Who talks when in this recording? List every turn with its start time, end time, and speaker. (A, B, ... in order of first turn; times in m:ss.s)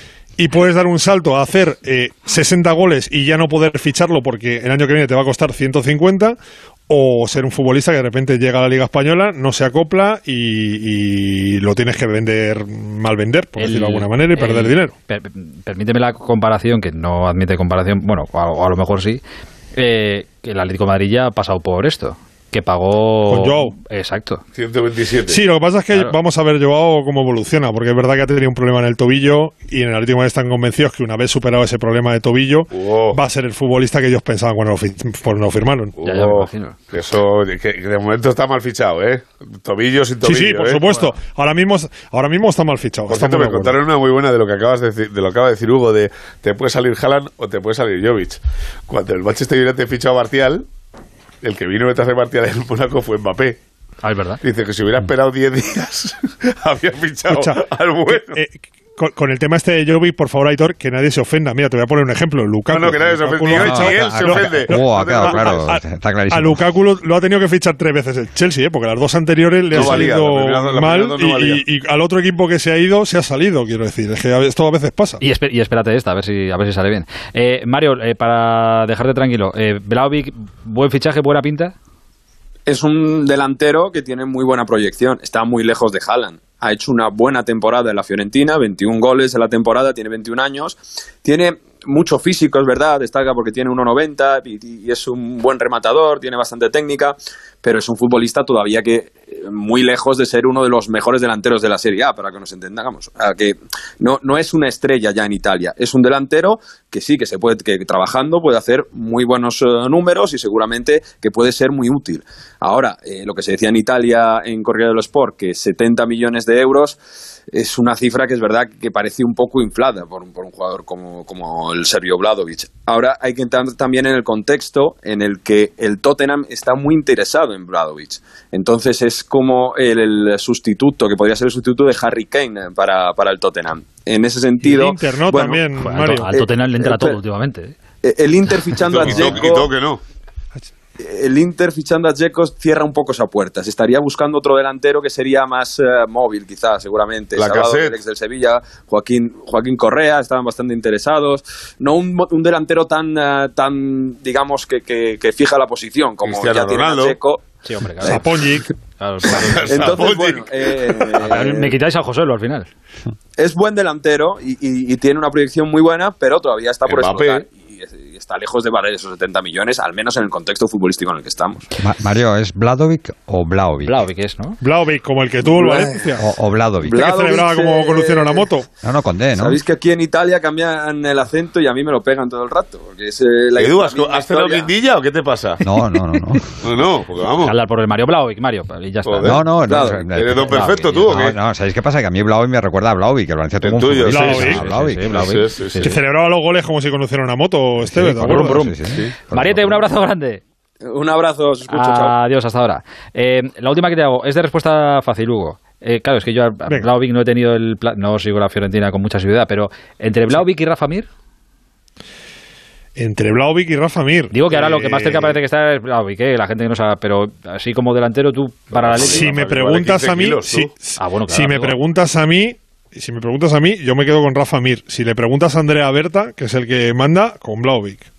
0:00.4-0:06.4 A
0:06.9-0:14.9 A
0:13.6-0:19.2 B
0:19.7-0:24.4 B
0:23.2-0:23.8 A
0:24.5-0:25.4 C
0:25.2-0:35.9 A
0:32.7-0:33.2 C
0:36.0-0:41.1 C
0:36.0-0:36.8 B
0:40.2-0:43.7 A
0:43.1-0:50.7 C
0:51.4-0:53.6 C
0:54.0-0:54.4 B
0:54.4-0:58.4 C
0:57.3-1:15.2 A
1:02.7-1:05.7 C
1:03.5-1:06.6 D
1:09.7-1:11.6 C
1:15.2-1:21.7 B
1:22.7-1:57.0 E
1:57.5-2:15.6 E
2:14.6-2:16.3 A
2:15.8-2:17.7 B
2:16.3-2:17.2 E
2:18.0-2:19.7 E
2:18.8-2:20.0 C
2:21.0-2:37.4 E
2:27.4-2:28.0 C
2:36.2-2:37.2 C
2:37.6-2:38.3 B
2:38.0-2:38.7 A
2:39.0-2:40.0 B
2:39.2-2:41.4 C
2:39.6-2:41.7 E
2:41.2-2:42.7 B
2:43.4-2:51.7 E
2:46.8-2:47.4 C
2:51.8-2:54.0 D
2:53.8-2:54.6 B
2:54.6-2:56.2 A
2:55.6-2:56.0 E
2:56.2-2:57.0 D
2:56.8-2:58.5 E
2:57.0-2:58.7 A
2:58.8-2:59.6 D
2:59.3-3:04.7 E
3:03.6-3:05.6 C
3:05.6-3:06.6 D
3:05.7-3:06.2 B
3:06.6-3:07.6 C
3:07.4-3:09.4 B
3:09.0-3:09.4 C
3:09.2-3:15.3 D
3:09.7-3:10.0 E
3:10.1-3:11.4 C
3:10.4-3:11.1 B
3:13.6-3:15.9 C
3:14.1-3:14.6 A
3:14.3-3:16.0 B
3:15.8-3:18.6 A
3:17.8-3:19.9 D
3:18.2-3:20.4 B
3:20.8-3:22.1 E
3:21.7-3:31.1 B
3:33.0-3:35.4 A
3:34.3-3:39.5 B
3:38.7-3:40.7 C
3:39.0-3:48.1 A
3:41.0-3:41.8 B